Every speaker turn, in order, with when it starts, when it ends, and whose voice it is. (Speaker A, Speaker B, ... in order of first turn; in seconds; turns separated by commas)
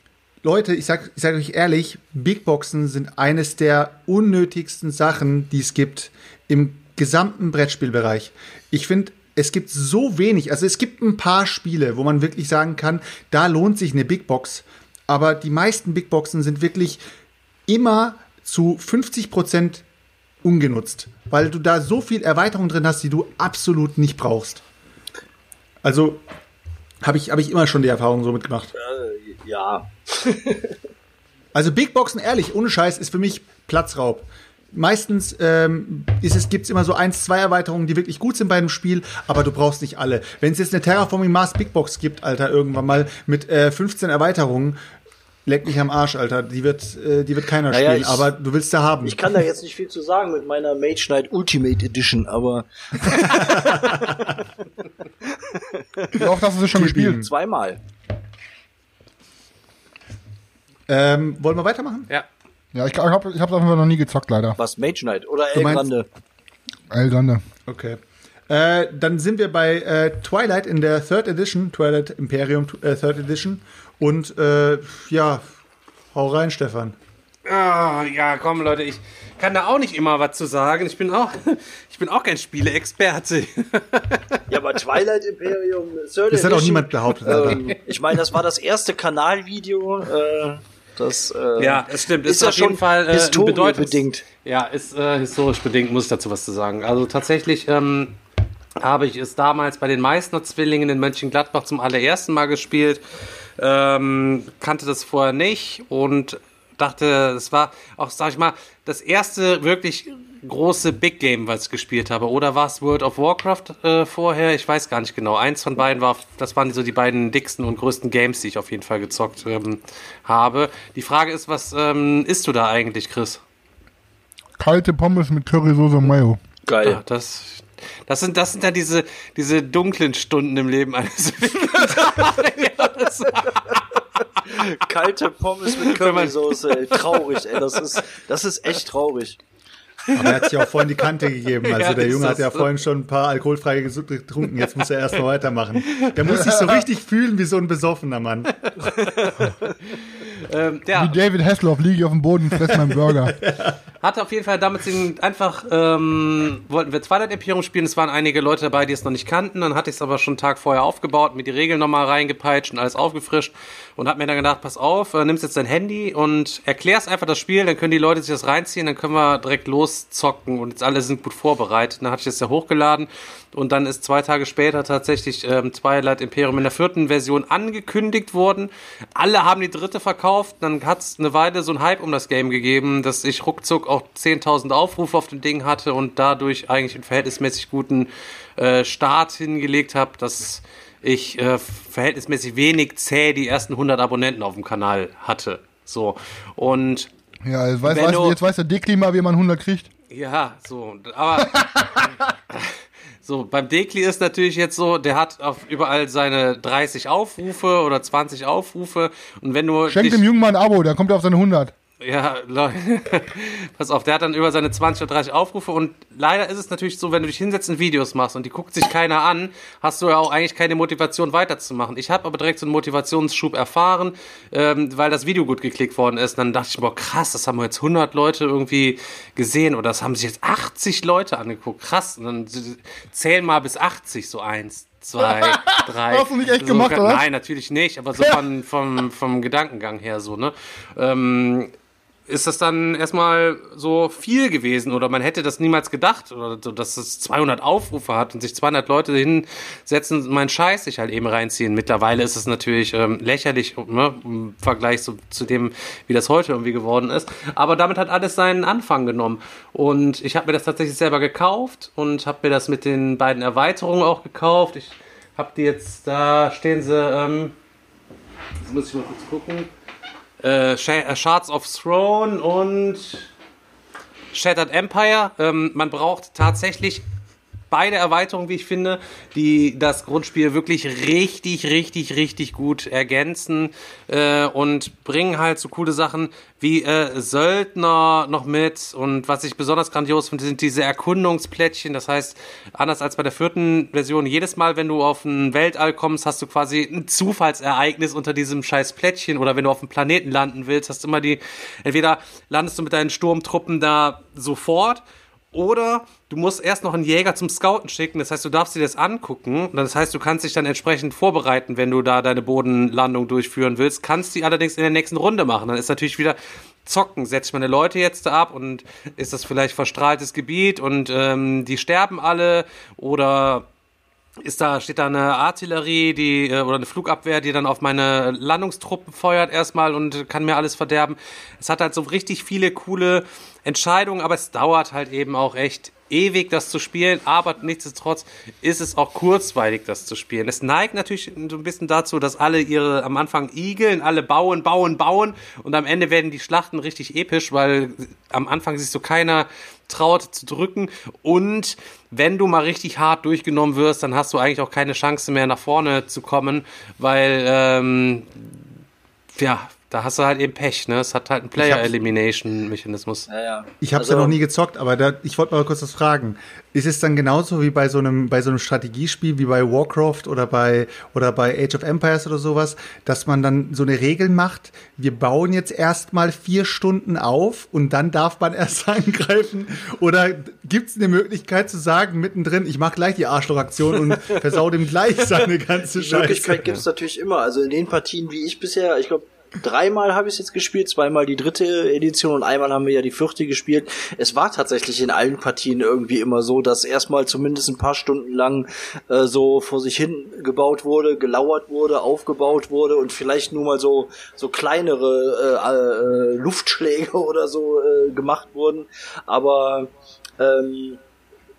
Speaker A: 0.4-17.0, Speaker A: 17.7-19.8, Speaker A: 20.4-24.6, Speaker A: 25.8-26.2, Speaker A: 27.0-28.7, Speaker B: 28.7-30.8, Speaker A: 31.5-44.8, Speaker A: 45.4-49.2, Speaker B: 47.7-48.3, Speaker B: 49.0-54.2, Speaker A: 53.4-54.1, Speaker B: 55.5-56.2, Speaker C: 56.1-57.3, Speaker A: 56.7-57.3, Speaker B: 56.9-57.8, Speaker A: 60.9-62.1, Speaker C: 62.7-64.6, Speaker B: 64.6-66.1, Speaker A: 65.5-65.9, Speaker C: 66.9-67.4, Speaker A: 67.7-75.5, Speaker A: 76.1-77.0, Speaker D: 77.5-84.4, Speaker B: 84.5-94.2, Speaker A: 86.3-87.7, Speaker D: 91.6-98.2, Speaker D: 98.8-103.0, Speaker D: 103.6-123.4, Speaker C: 124.6-126.4, Speaker B: 126.7-127.0, Speaker D: 126.8-134.6, Speaker B: 134.5-139.4, Speaker D: 135.7-137.8, Speaker A: 140.1-148.7, Speaker D: 141.6-142.7, Speaker C: 146.4-146.6, Speaker D: 148.6-151.2, Speaker C: 150.9-153.3, Speaker A: 152.7-153.8, Speaker D: 154.0-197.1, Speaker C: 197.4-199.9, Speaker D: 197.8-198.4, Speaker D: 200.1-210.2, Speaker C: 201.4-202.1, Speaker C: 209.9-211.7, Speaker D: 212.0-241.7, Speaker C: 235.2-237.3, Speaker D: 242.3-267.5, Speaker D: 268.6-269.7, Speaker D: 270.4-273.3, Speaker D: 274.3-277.0, Speaker D: 277.7-323.7, Speaker D: 324.4-358.5, Speaker D: 359.3-363.3, Speaker A: 361.6-361.9, Speaker B: 363.3-364.4, Speaker A: 363.8-386.6, Speaker B: 384.1-384.6, Speaker B: 385.2-411.0